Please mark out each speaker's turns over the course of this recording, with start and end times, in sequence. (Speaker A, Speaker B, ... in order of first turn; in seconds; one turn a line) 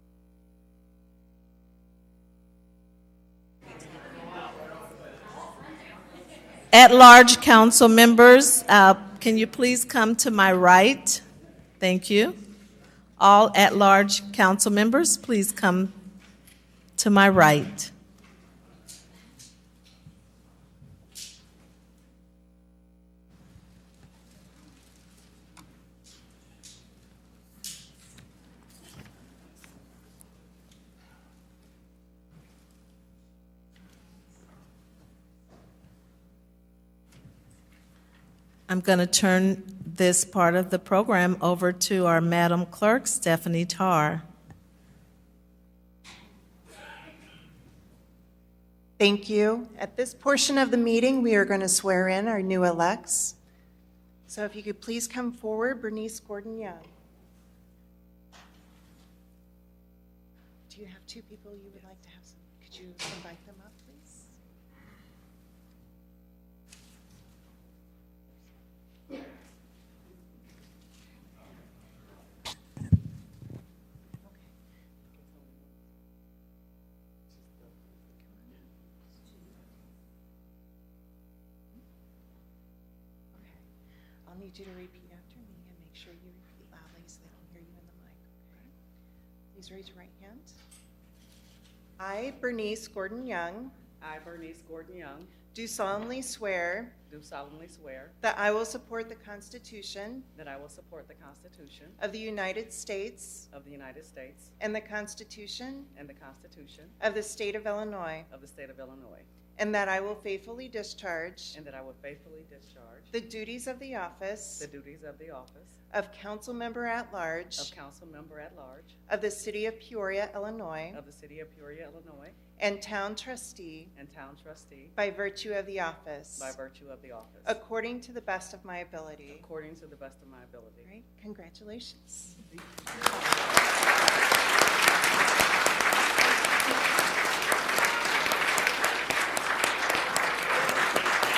Speaker A: 6.7-11.2
Speaker A: 11.8-12.3
Speaker A: 13.2-15.9
Speaker A: 17.0-17.9
Speaker A: 38.7-44.2
Speaker B: 49.0-53.4
Speaker B: 54.3-56.9
Speaker B: 60.7-64.3
Speaker B: 74.2-74.5
Speaker C: 75.1-75.8
Speaker B: 78.3-78.6
Speaker B: 83.3-83.6
Speaker B: 84.2-88.7
Speaker B: 89.5-90.5
Speaker B: 92.0-93.7
Speaker C: 94.0-95.3
Speaker B: 95.5-97.0
Speaker C: 97.1-98.1
Speaker B: 98.2-100.3
Speaker C: 100.3-102.0
Speaker B: 102.0-103.5
Speaker C: 103.5-104.5
Speaker B: 104.6-105.9
Speaker C: 105.9-107.0
Speaker B: 107.0-108.3
Speaker C: 108.3-109.3
Speaker B: 109.6-111.6
Speaker C: 111.5-113.1
Speaker B: 113.1-114.7
Speaker C: 114.6-115.8
Speaker B: 115.9-117.7
Speaker C: 117.6-118.9
Speaker B: 119.1-121.0
Speaker C: 120.9-122.4
Speaker B: 122.6-123.9
Speaker C: 123.9-124.9
Speaker B: 125.0-126.5
Speaker C: 126.4-127.6
Speaker B: 127.4-129.5
Speaker C: 129.3-130.9
Speaker B: 130.8-132.4